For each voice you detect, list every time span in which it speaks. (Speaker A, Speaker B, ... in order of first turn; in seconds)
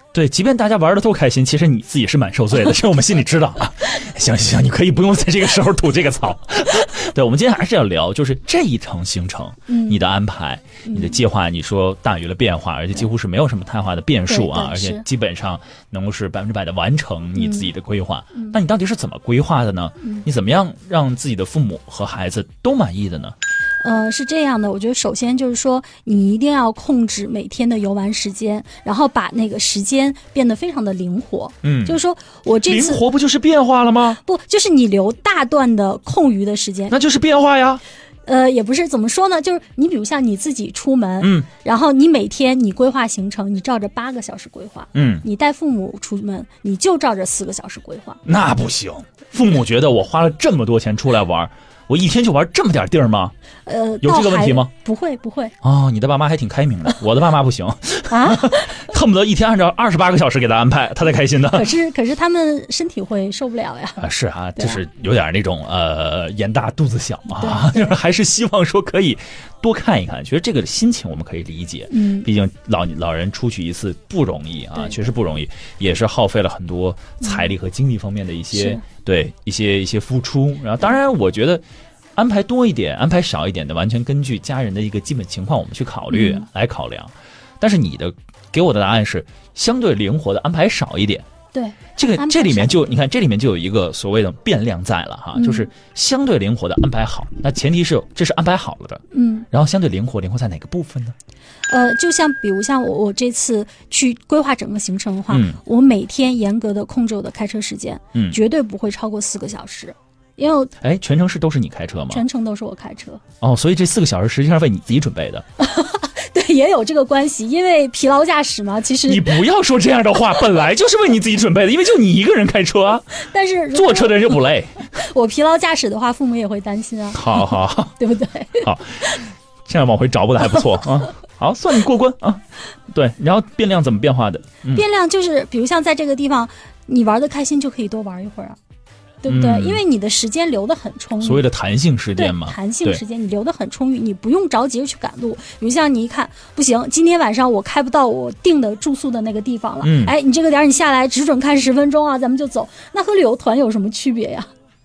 Speaker A: 0.1-23.4, 31.6-32.0, 32.6-34.2, 36.9-37.8, 41.2-41.5, 44.9-45.3, 48.2-53.3, 54.0-54.7, 55.6-61.7, 64.0-81.6, 82.2-91.3, 92.0-101.1, 105.3-105.6, 108.1-108.4, 110.8-112.2, 113.4-115.5, 119.1-124.8, 127.1-128.0, 128.6-134.8, 139.3-139.8, 141.2-143.0, 149.8-150.1
Speaker B: 9.7-10.0, 10.8-11.2, 14.3-15.0, 17.4-17.7, 23.8-33.0, 34.2-37.0, 38.2-48.2, 53.7-55.5, 58.1-58.8, 61.5-64.0, 67.3-68.0, 71.9-72.3, 74.8-75.0, 77.2-77.5, 78.5-78.8, 86.1-86.5, 91.5-93.0, 95.3-95.7, 99.1-99.5, 101.7-110.7, 112.1-113.2, 115.6-119.3, 123.2-128.7, 134.7-138.6, 139.2-141.4, 142.2-154.5